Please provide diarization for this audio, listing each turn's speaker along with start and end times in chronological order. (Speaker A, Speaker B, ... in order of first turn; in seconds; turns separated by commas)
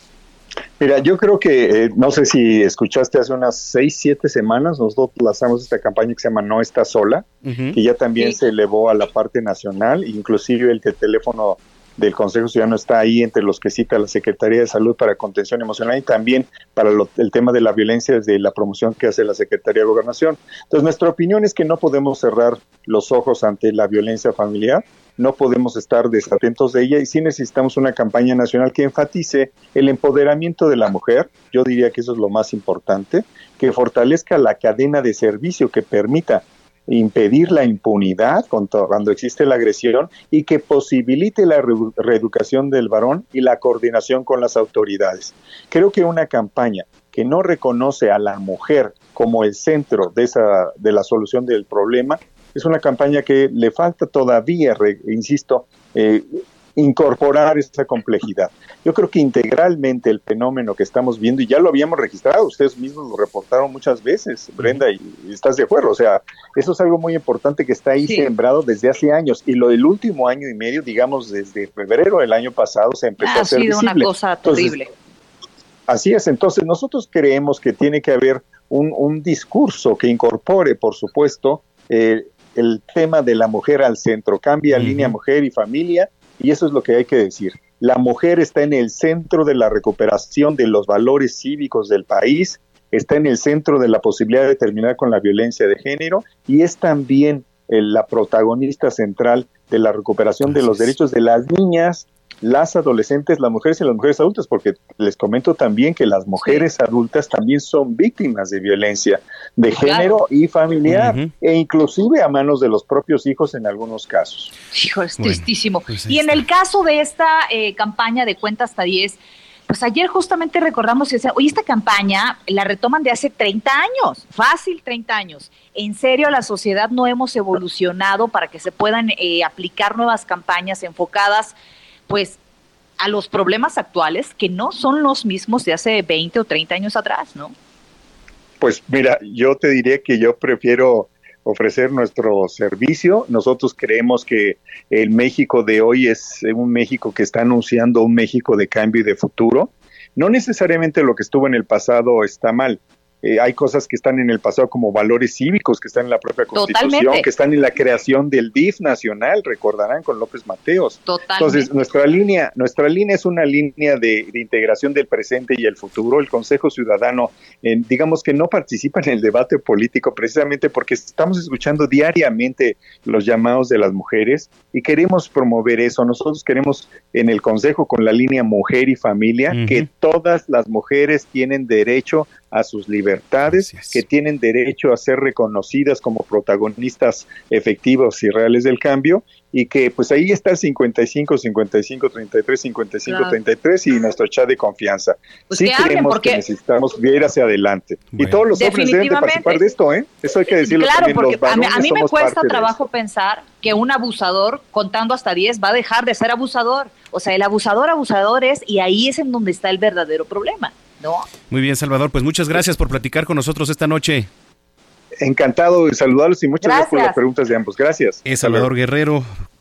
Speaker A: 0.8-74.8, Speaker B: 7.5-7.8, Speaker C: 68.0-68.3, Speaker C: 73.2-74.9, Speaker A: 75.9-114.5, Speaker B: 84.7-85.2, Speaker B: 100.4-100.9, Speaker C: 109.8-110.2, Speaker B: 110.9-111.3, Speaker C: 114.7-119.2, Speaker B: 115.2-116.4, Speaker C: 119.7-131.6, Speaker C: 132.1-132.4, Speaker C: 133.0-137.5, Speaker A: 138.6-202.7, Speaker C: 156.5-157.2, Speaker C: 161.1-161.7, Speaker B: 179.5-179.9, Speaker B: 183.5-184.0, Speaker C: 193.1-193.4, Speaker C: 195.5-196.4, Speaker B: 198.1-198.4, Speaker C: 198.5-199.7, Speaker C: 200.6-211.3, Speaker B: 211.5-214.3, Speaker A: 215.2-218.7, Speaker C: 216.6-217.2, Speaker B: 218.3-219.3